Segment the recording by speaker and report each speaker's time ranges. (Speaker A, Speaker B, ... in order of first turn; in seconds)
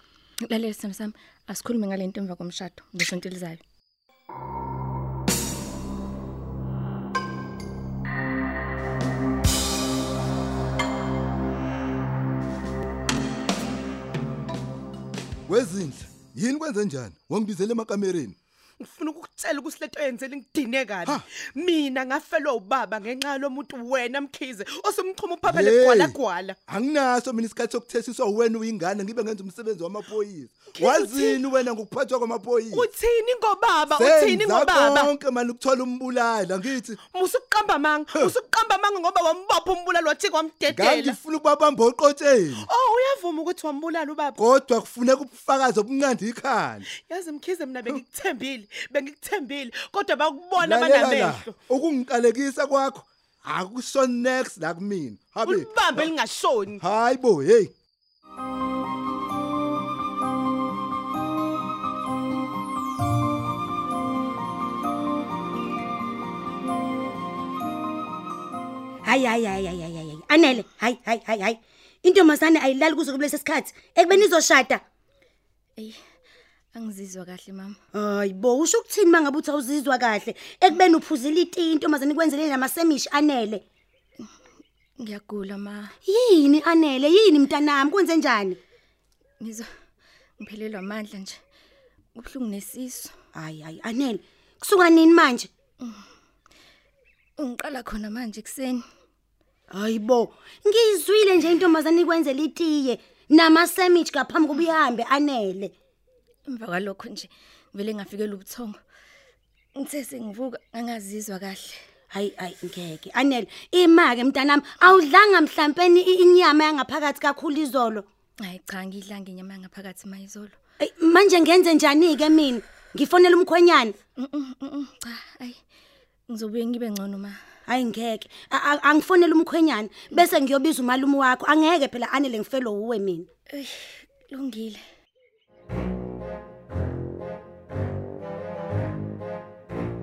Speaker A: 0.4-3.6, 76.7-77.8, 85.0-85.9, 89.4-89.7, 90.4-91.4, 92.2-93.1, 97.4-98.8, 106.5-108.8, 109.8-111.8, 118.4-120.6, 124.2-125.6, 126.3-127.4, 133.5-134.8
Speaker B: 15.5-18.4, 25.4-32.9, 33.9-37.0, 40.7-42.7, 44.4-46.9, 50.6-56.1, 56.8-57.7
Speaker C: 18.8-26.6, 30.7-31.4, 32.7-35.1, 37.0-41.2, 42.6-44.4, 47.0-51.5, 55.4-56.8
Speaker D: 69.0-74.8, 77.9-83.6, 86.0-88.6, 93.3-95.5, 99.7-105.7, 112.1-118.0, 120.8-124.0, 127.7-133.3